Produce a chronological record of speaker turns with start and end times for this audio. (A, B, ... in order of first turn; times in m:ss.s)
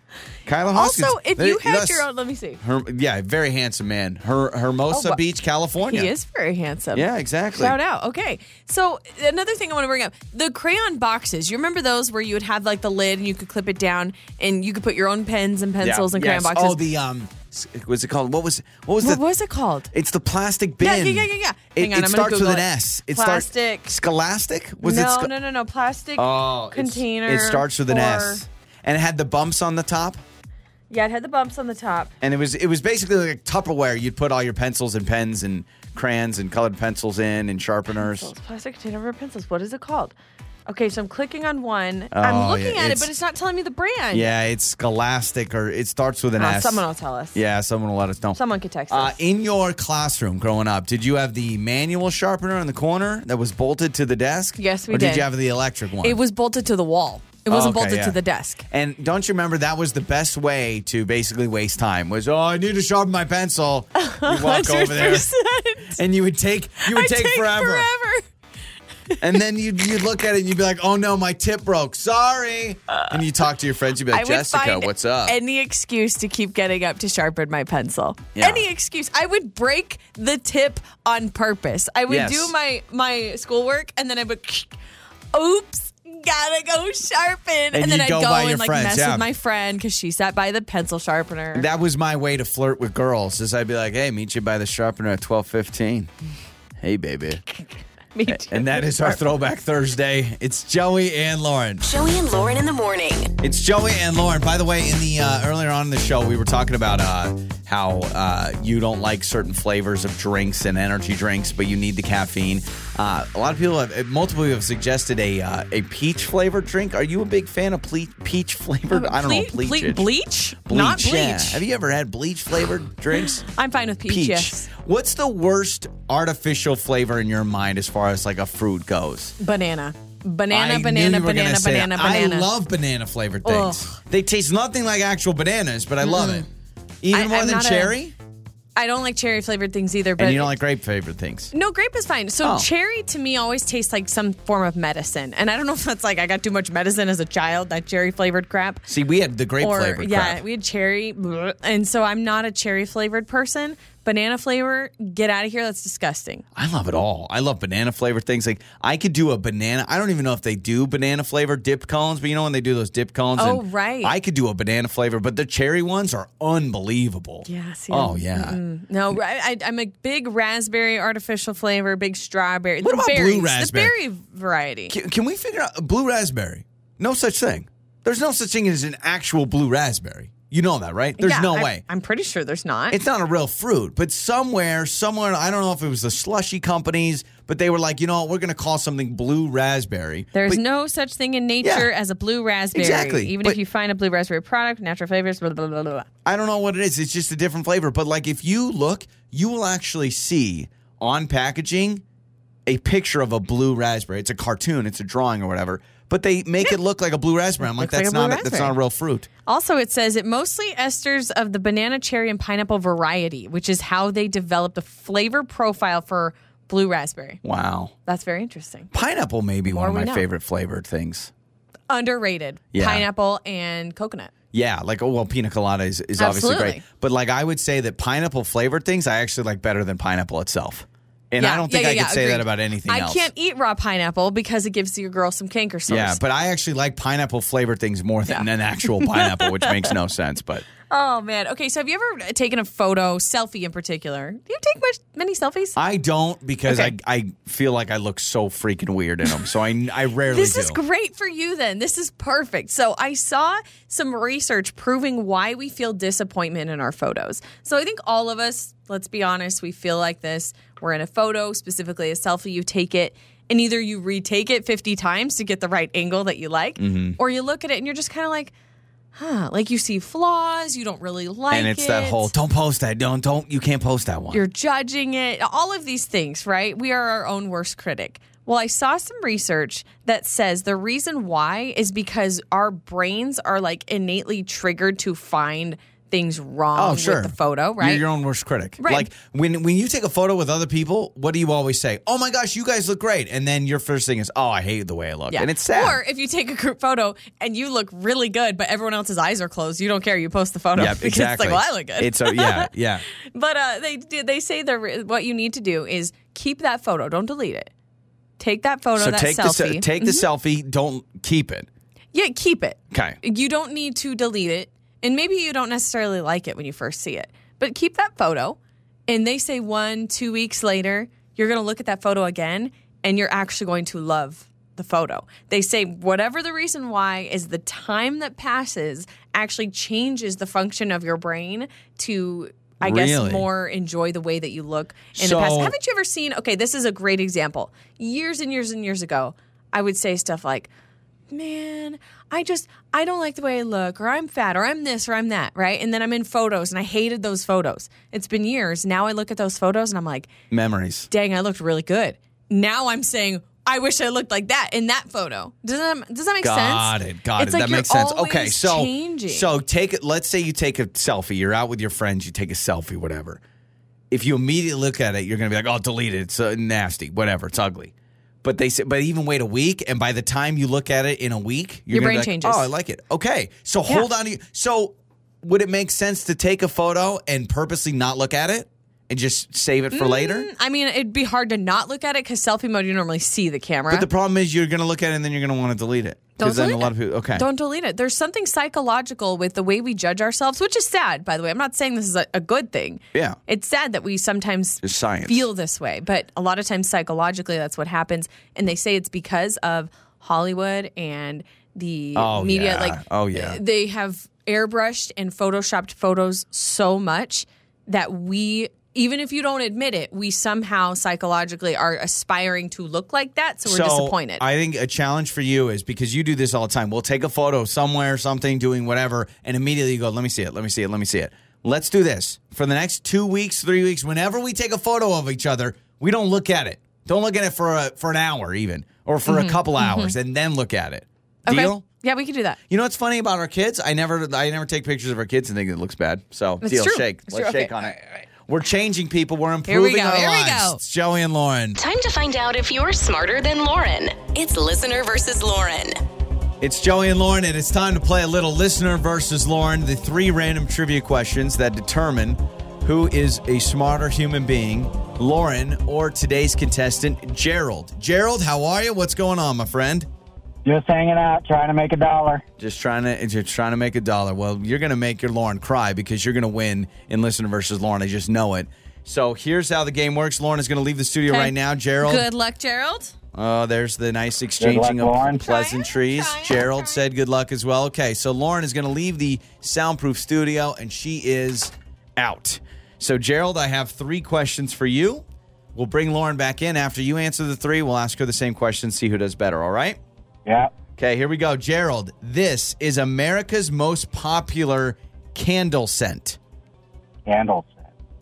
0:00.4-0:02.1 A
0:00.7-0:02.6 B
0:02.6-0:06.1 A
0:04.9-0:05.2 B
0:05.8-0:16.8 B
0:06.9-0:07.8 A
0:15.8-0:19.2 A
0:19.0-0:19.9 B
0:19.9-0:25.3 A
0:20.8-0:24.0 B
0:24.8-0:28.4 B
0:26.2-0:30.2 A
0:30.9-0:32.1 B
0:32.2-0:38.3 A
0:38.0-0:40.1 B
0:40.7-0:44.3 B
0:42.1-0:43.1 A
0:44.1-0:56.2 A
0:46.4-0:47.4 B
0:48.3-0:49.2 B
0:54.6-0:55.3 B
0:56.0-0:58.6 B
0:57.5-1:05.3 A
1:03.9-1:06.0 B
1:05.9-1:07.9 A
1:06.8-1:08.2 B
1:09.2-1:15.4 A
1:14.1-1:24.7 B
1:18.4-1:18.6 A
1:22.1-1:22.5 A
1:25.3-1:31.7 B
1:27.7-1:29.3 A
1:31.5-1:36.1 A
1:36.8-1:37.4 A
1:38.1-1:39.2 B
1:38.3-1:41.8 A
1:41.8-1:43.3 C
1:43.4-2:00.1 A
1:58.9-2:01.6 B
2:00.6-2:03.5 A
2:03.1-2:04.7 B
2:04.1-2:09.4 A
2:09.4-2:12.5 B
2:10.5-2:16.4 A
2:13.4-2:14.0 B
2:16.0-2:16.4 B
2:17.0-2:18.1 A
2:17.1-2:17.9 B
2:18.8-2:20.6 B
2:20.2-2:21.5 A
2:21.5-2:28.8 B
2:22.4-2:22.7 A
2:28.9-2:30.4 A
2:29.6-2:36.4 B
2:36.5-2:48.6 A
2:43.4-2:44.1 B
2:47.4-2:54.9 B
2:52.8-2:53.9 A
2:54.9-3:01.8 A
3:01.2-3:03.0 B
3:02.9-3:10.6 A
3:10.3-3:16.0 B
3:11.6-3:11.9 A
3:12.7-3:13.6 A
3:16.2-3:22.0 A
3:22.6-3:29.3 A
3:27.6-3:28.8 B
3:29.4-3:37.4 B
3:37.4-3:37.9 A
3:38.0-3:38.9 B
3:38.9-3:41.3 A
3:39.6-3:40.3 B
3:41.9-3:44.3 B
3:42.7-3:43.0 A
3:44.5-3:53.3 A
3:46.2-3:46.8 B
3:51.4-3:56.2 B
3:55.9-4:00.6 A
3:59.0-3:59.7 B
4:00.9-4:05.8 B
4:05.8-4:10.8 A
4:06.7-4:06.9 B
4:10.2-4:28.5 B
4:26.8-4:27.2 A
4:29.1-4:32.3 B
4:31.5-4:34.4 A
4:34.3-4:48.0 B
4:46.7-4:56.0 A
4:48.8-4:49.1 B
4:55.3-5:02.7 B
5:00.7-5:03.0 A
5:03.3-5:07.7 B
5:08.4-5:10.3 B
5:09.0-5:11.7 A
5:12.1-5:18.6 B
5:12.9-5:13.2 A
5:19.1-5:40.7 B
5:32.8-5:33.4 A
5:35.1-5:35.7 A
5:41.3-5:50.3 B
5:50.5-5:51.1 A
5:51.1-5:59.5 B
5:56.4-6:03.4 A
6:04.1-6:20.5 A
6:11.9-6:12.7 B
6:19.9-6:24.1 B
6:23.9-6:27.4 A
6:26.4-6:54.4 B
6:33.1-6:33.4 A
6:34.8-6:35.5 A
6:42.1-6:43.6 A
6:53.6-7:11.8 A
7:09.2-7:10.1 B
7:11.4-7:12.6 B
7:12.7-7:21.8 A
7:16.6-7:18.2 B
7:19.7-7:20.8 B
7:21.8-7:26.0 C
7:26.6-7:40.1 A
7:40.6-7:42.4 D
7:42.6-7:52.3 A
7:51.3-7:53.1 B
7:53.3-8:10.0 A
7:54.6-7:55.4 D
7:55.3-7:57.0 B
8:11.0-8:16.4 A
8:17.2-8:17.9 D